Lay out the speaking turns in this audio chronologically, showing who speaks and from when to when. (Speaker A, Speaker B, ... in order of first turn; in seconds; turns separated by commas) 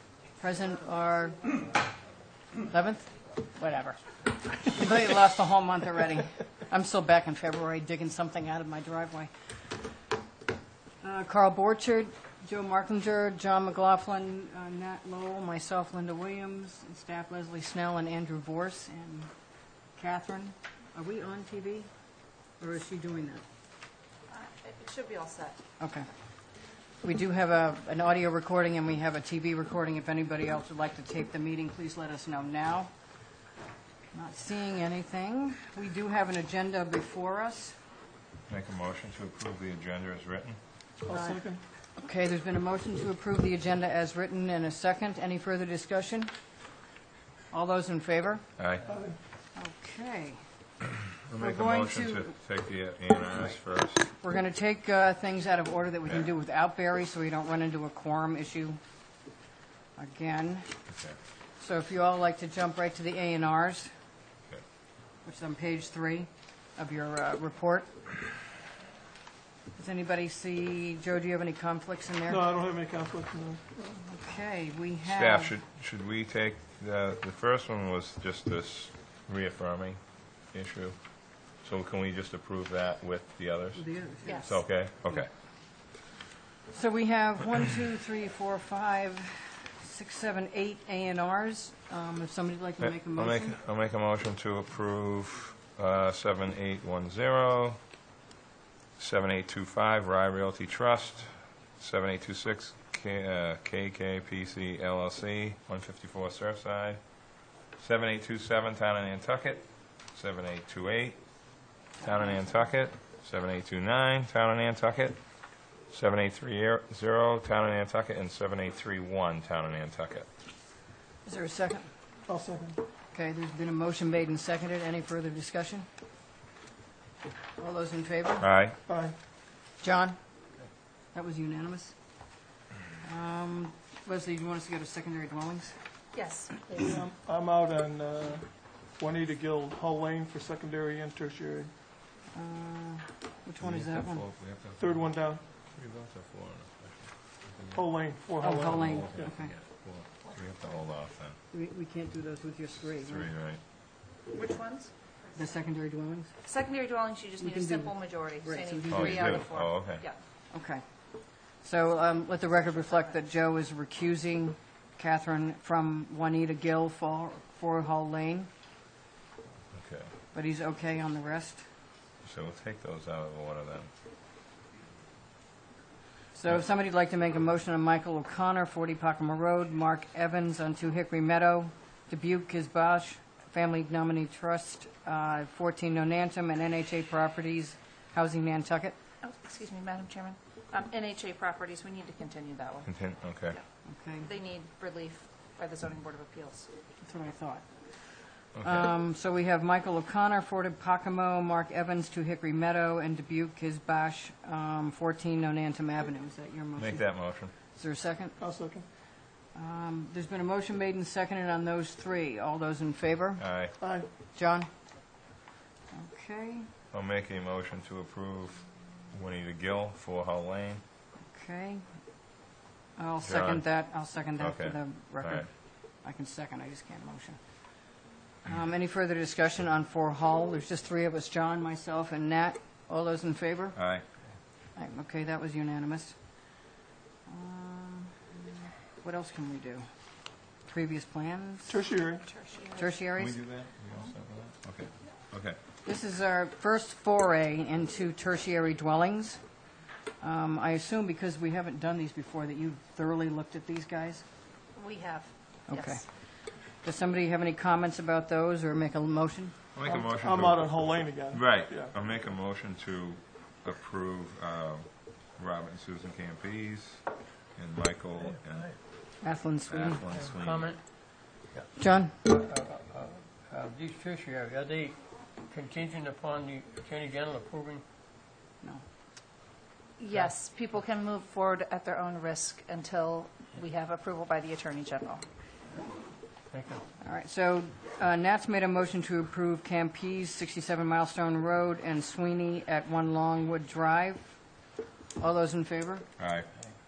Speaker A: 0.3-1.6, Speaker A: 2.6-9.3, Speaker A: 11.0-19.3, Speaker A: 20.0-21.9, Speaker A: 22.6-23.4, Speaker B: 24.3-25.6, Speaker A: 25.8-26.1, Speaker A: 27.0-32.9, Speaker A: 34.1-37.8, Speaker C: 38.5-40.6, Speaker D: 41.0-41.6, Speaker A: 41.1-41.5, Speaker A: 42.0-46.3, Speaker A: 47.5-48.5, Speaker C: 48.6-48.9, Speaker D: 48.9-49.2, Speaker A: 49.5-50.4, Speaker C: 51.1-54.1, Speaker A: 51.4-52.3, Speaker A: 54.2-58.8, Speaker A: 60.0-60.7, Speaker C: 60.9-61.2, Speaker A: 61.6-63.9, Speaker A: 65.2-67.9, Speaker A: 69.8-72.4, Speaker D: 72.3-73.8, Speaker A: 74.0-75.6, Speaker C: 75.0-85.3, Speaker A: 83.8-85.3, Speaker B: 84.2-84.6, Speaker A: 86.7-93.6, Speaker C: 92.8-97.8, Speaker C: 99.0-107.0, Speaker C: 107.8-111.2, Speaker C: 111.9-115.2, Speaker C: 115.9-120.3, Speaker A: 121.2-121.9, Speaker D: 122.3-122.8, Speaker A: 123.1-125.9, Speaker A: 127.6-128.5, Speaker C: 128.4-128.8, Speaker D: 128.9-129.1, Speaker A: 129.8-130.2, Speaker A: 131.1-131.9, Speaker A: 133.0-135.8, Speaker B: 136.1-136.9, Speaker D: 136.8-141.7, Speaker A: 142.3-144.2, Speaker C: 143.6-147.9, Speaker D: 144.8-145.4, Speaker D: 147.7-149.3, Speaker A: 148.4-149.5, Speaker C: 148.7-151.4, Speaker A: 151.5-153.3, Speaker C: 153.0-153.6, Speaker B: 154.3-154.9, Speaker A: 155.3-156.3, Speaker B: 156.4-160.2, Speaker A: 157.4-159.5, Speaker C: 158.9-160.0, Speaker A: 160.5-168.5, Speaker C: 169.7-170.1, Speaker A: 170.3-171.7, Speaker C: 172.2-173.9, Speaker A: 176.3-188.9, Speaker B: 189.2-192.9, Speaker C: 192.8-193.6, Speaker A: 193.8-194.3, Speaker B: 194.2-196.7, Speaker A: 197.0-197.6, Speaker A: 198.4-208.4, Speaker C: 198.6-198.9, Speaker C: 206.8-207.5, Speaker D: 208.4-208.8, Speaker A: 209.5-213.5, Speaker C: 213.4-213.7, Speaker D: 213.8-214.1, Speaker A: 214.3-214.7, Speaker A: 215.9-216.7, Speaker C: 216.9-220.8, Speaker A: 221.3-221.8, Speaker A: 223.0-227.4, Speaker C: 223.2-223.7, Speaker C: 224.4-225.5, Speaker A: 228.4-233.8, Speaker C: 233.7-234.1, Speaker A: 234.7-236.2, Speaker A: 237.3-238.3, Speaker A: 239.0-239.9, Speaker A: 240.6-241.8, Speaker D: 241.7-242.2, Speaker B: 242.3-242.9, Speaker A: 242.8-243.4, Speaker C: 243.2-245.6, Speaker A: 245.8-249.4, Speaker A: 250.2-254.2, Speaker B: 254.8-256.0, Speaker A: 255.7-259.6, Speaker C: 259.8-269.0, Speaker D: 259.9-261.9, Speaker A: 269.2-270.0, Speaker C: 269.7-270.7, Speaker E: 270.1-270.8, Speaker E: 271.4-277.8, Speaker A: 271.8-272.2, Speaker B: 280.0-285.2, Speaker E: 286.5-286.8, Speaker A: 287.0-294.4, Speaker A: 295.2-296.1, Speaker C: 296.2-296.5